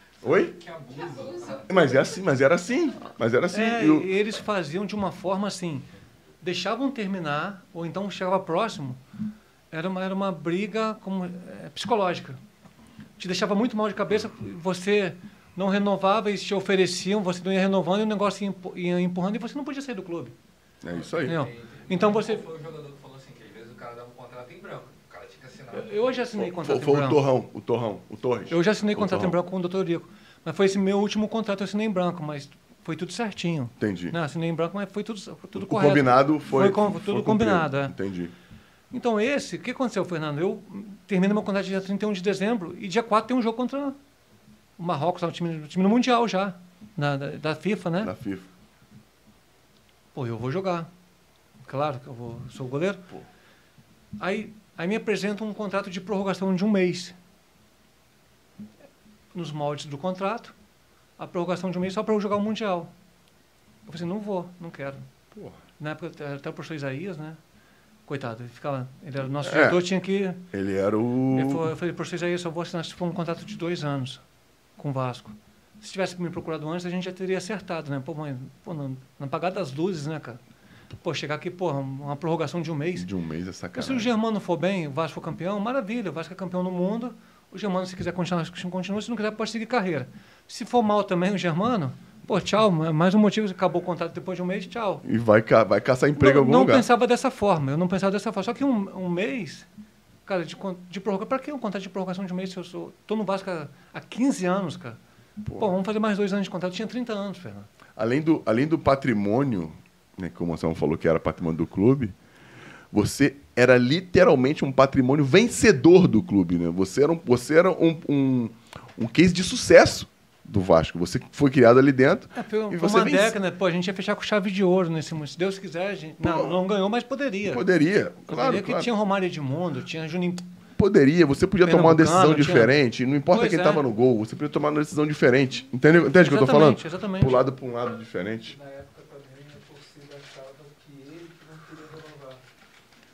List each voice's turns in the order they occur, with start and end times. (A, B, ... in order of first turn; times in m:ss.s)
0:00.2-0:00.6 A
0:00.5-0:02.0 B
0:01.7-0:04.2 A
0:03.5-0:05.9 C
0:06.4-0:09.0 C
0:09.7-0:12.4 C
0:13.2-0:20.4 C
0:20.8-0:21.4 A
0:20.9-0:26.0 B
0:21.3-0:22.5 C
0:25.7-0:27.2 C
0:26.4-0:29.4 A
0:28.5-0:37.9 C
0:33.8-0:34.2 A
0:35.5-0:38.3 A
0:38.9-0:44.0 C
0:44.8-0:48.1 C
0:48.0-0:48.5 A
0:50.2-0:50.9 C
0:51.7-0:53.0 C
0:54.2-0:57.2 C
0:59.3-1:00.5 C
1:01.2-1:02.9 C
1:03.9-1:05.0 C
1:05.8-1:07.4 C
1:08.1-1:10.4 C
1:09.4-1:09.8 A
1:10.5-1:11.7 A
1:11.3-1:14.2 C
1:14.8-1:20.4 C
1:21.0-1:23.1 C
1:23.0-1:24.1 A
1:23.8-1:35.0 C
1:35.0-1:36.9 A
1:36.2-1:39.7 C
1:40.3-1:45.0 C
1:45.4-1:45.7 A
1:45.6-1:47.7 C
1:48.0-1:52.1 A
1:52.9-2:03.4 A
2:02.4-2:07.6 C
2:06.2-2:06.6 A
2:07.5-2:08.9 A
2:08.3-2:10.5 C
2:10.8-2:18.6 A
2:11.6-2:12.8 C
2:13.3-2:13.8 C
2:16.2-2:17.4 C
2:18.4-2:22.4 D